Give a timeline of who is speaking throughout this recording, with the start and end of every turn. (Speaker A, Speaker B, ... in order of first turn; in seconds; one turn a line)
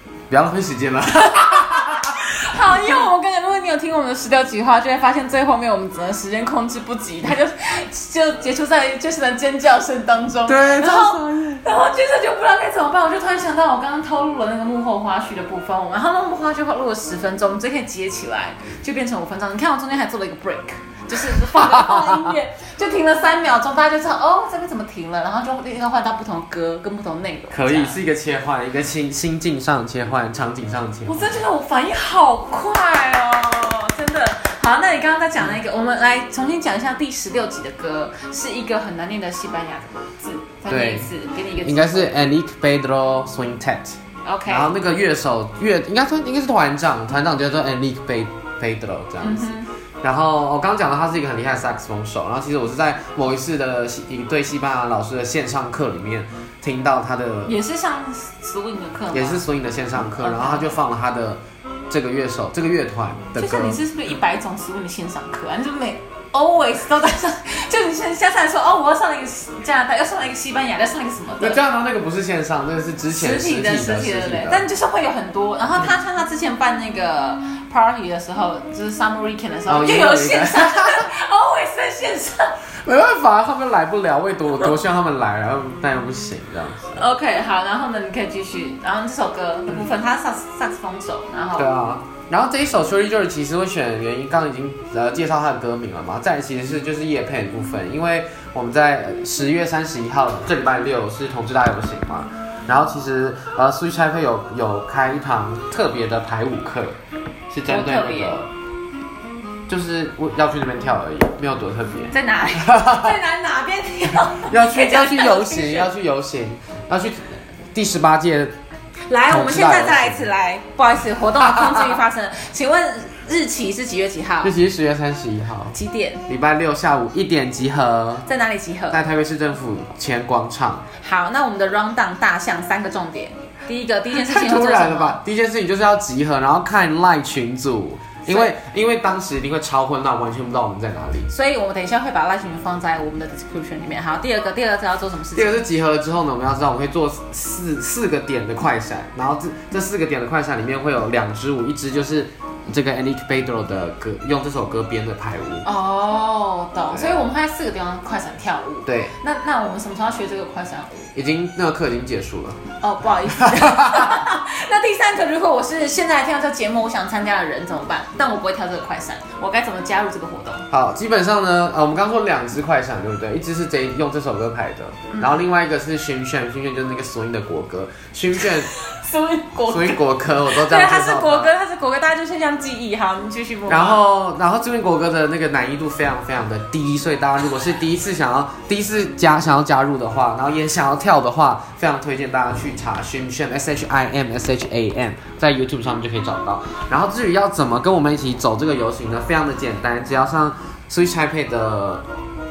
Speaker A: 0.3-3.0
Speaker B: 1.2-28.0
Speaker A: 10.5-11.7
Speaker A: 21.5-22.3
Speaker A: 27.5-31.4
Speaker B: 31.1-42.2
Speaker A: 40.7-41.1
Speaker A: 41.6-57.6
Speaker B: 44.2-44.7
Speaker B: 49.2-49.7
Speaker B: 57.5-59.5
Speaker A: 59.1-63.8
Speaker B: 60.0-60.8
Speaker B: 63.4-71.6
Speaker A: 71.4-74.7
Speaker B: 73.1-82.6
Speaker A: 79.7-81.1
Speaker A: 82.7-87.0
Speaker B: 86.9-91.7
Speaker A: 91.6-107.0
Speaker A: 107.5-108.5
Speaker B: 107.7-108.4
Speaker A: 109.7-113.1
Speaker B: 112.1-115.9
Speaker A: 114.3-118.5
Speaker B: 119.1-124.5
Speaker A: 119.3-120.3
Speaker A: 124.4-125.8
Speaker B: 125.7-126.2
Speaker A: 126.3-128.3
Speaker B: 128.2-129.0
Speaker A: 128.9-130.9
Speaker B: 130.9-135.2
Speaker A: 134.1-141.3
Speaker B: 138.3-138.5
Speaker B: 141.3-145.7
Speaker A: 145.3-155.7
Speaker B: 155.6-161.1
Speaker A: 156.9-157.3
Speaker A: 158.9-159.2
Speaker A: 161.2-162.6
Speaker B: 162.8-170.7
Speaker A: 163.4-163.9
Speaker A: 170.7-178.7
Speaker B: 175.1-175.5
Speaker B: 178.4-184.0
Speaker A: 179.7-181.5
Speaker A: 183.7-202.1